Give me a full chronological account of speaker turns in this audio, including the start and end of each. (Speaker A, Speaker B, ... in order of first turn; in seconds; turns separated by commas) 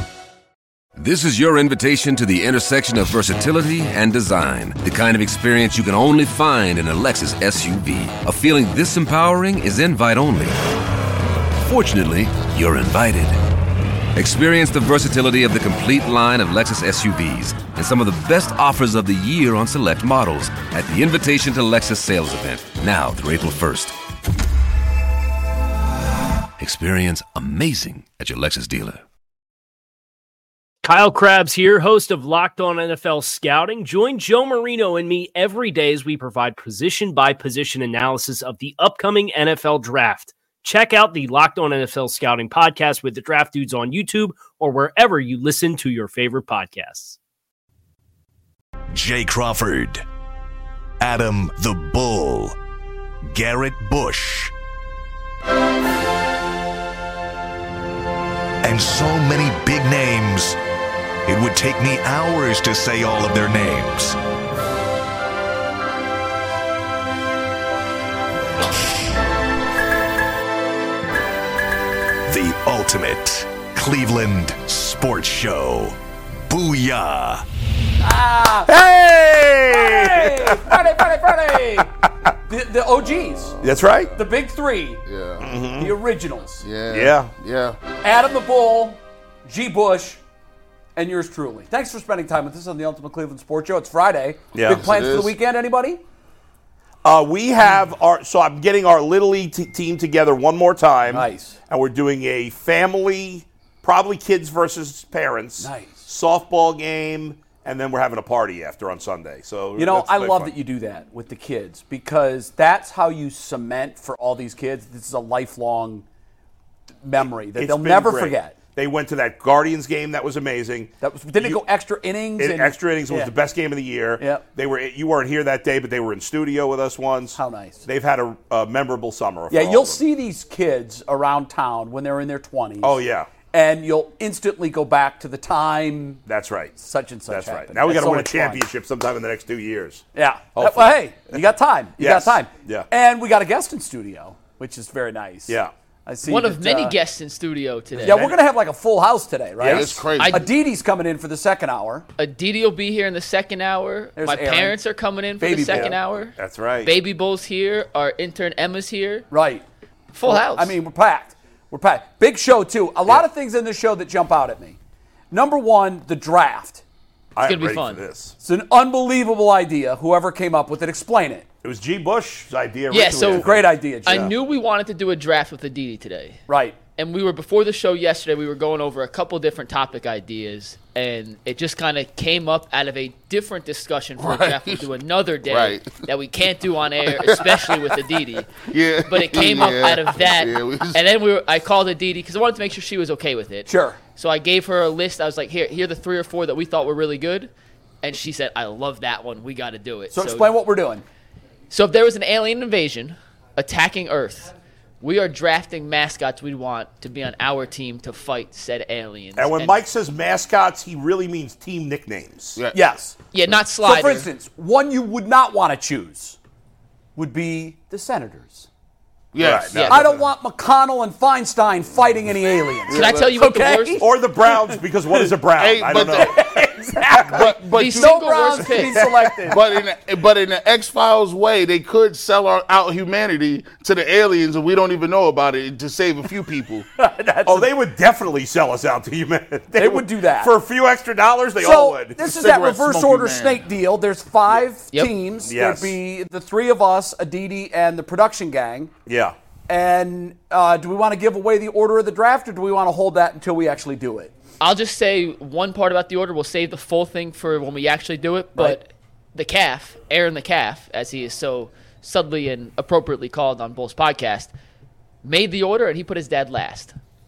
Speaker A: 1.0-10.6, Speaker A: 11.6-13.4, Speaker A: 14.2-24.0, Speaker A: 26.6-29.0, Speaker B: 30.8-47.2, Speaker C: 48.9-50.0, Speaker C: 51.0-52.6, Speaker C: 53.3-54.5, Speaker C: 58.6-60.6, Speaker C: 61.2-64.2, Speaker C: 72.3-77.4, Speaker D: 78.0-78.7, Speaker E: 78.7-81.0, Speaker D: 79.7-81.9, Speaker E: 81.7-82.3, Speaker D: 82.5-83.6, Speaker E: 83.6-84.2, Speaker D: 84.1-85.0, Speaker F: 85.1-85.5, Speaker E: 85.4-85.9, Speaker D: 85.8-86.7, Speaker F: 86.6-87.8, Speaker E: 86.9-87.3, Speaker D: 88.0-90.2, Speaker D: 91.0-96.0, Speaker E: 94.5-94.8, Speaker F: 94.7-95.3, Speaker E: 97.0-110.5, Speaker D: 101.1-101.6, Speaker D: 105.6-106.1, Speaker D: 109.8-116.0, Speaker D: 117.0-118.5, Speaker E: 117.2-121.6, Speaker D: 121.0-123.3, Speaker E: 122.4-130.0, Speaker D: 127.4-127.8, Speaker D: 129.5-133.0, Speaker E: 132.8-133.3, Speaker D: 133.5-136.2, Speaker E: 136.3-136.8, Speaker D: 136.8-138.6, Speaker E: 137.3-140.0, Speaker D: 140.2-146.9, Speaker E: 140.6-141.4, Speaker E: 142.0-142.9, Speaker G: 146.2-148.3, Speaker E: 147.9-148.3, Speaker D: 148.0-152.1, Speaker E: 149.6-150.0, Speaker F: 149.7-150.4, Speaker G: 150.2-150.5, Speaker G: 152.2-159.3, Speaker D: 154.2-154.8, Speaker D: 155.4-156.0, Speaker E: 155.7-156.9, Speaker D: 159.3-159.6, Speaker G: 160.1-160.7, Speaker D: 160.2-164.8, Speaker D: 165.3-166.8, Speaker E: 167.3-168.3, Speaker G: 167.4-168.0, Speaker D: 168.4-171.5, Speaker E: 171.6-174.3, Speaker G: 172.9-173.5, Speaker D: 173.3-174.3, Speaker G: 174.0-176.4, Speaker D: 176.5-176.8, Speaker G: 176.9-197.5, Speaker F: 184.2-184.9, Speaker F: 185.4-186.0, Speaker F: 187.0-191.0, Speaker D: 193.7-194.0, Speaker G: 198.0-200.5, Speaker D: 200.1-201.0, Speaker G: 201.7-209.8, Speaker E: 209.3-212.6, Speaker D: 212.7-213.2, Speaker G: 213.3-214.3, Speaker D: 213.8-216.4, Speaker D: 217.2-218.7, Speaker F: 219.3-220.1, Speaker E: 219.4-220.2, Speaker D: 219.9-225.3, Speaker F: 222.9-223.4, Speaker G: 222.9-224.0, Speaker E: 224.0-227.4, Speaker F: 225.6-226.4, Speaker D: 225.9-229.7, Speaker F: 227.3-236.9, Speaker G: 227.7-229.1, Speaker D: 237.0-237.7, Speaker E: 237.5-242.2, Speaker D: 239.8-240.5, Speaker D: 241.6-248.9, Speaker F: 242.2-243.7, Speaker E: 245.5-245.9, Speaker E: 249.1-249.3, Speaker D: 249.7-254.3, Speaker G: 254.6-264.5, Speaker G: 265.2-266.9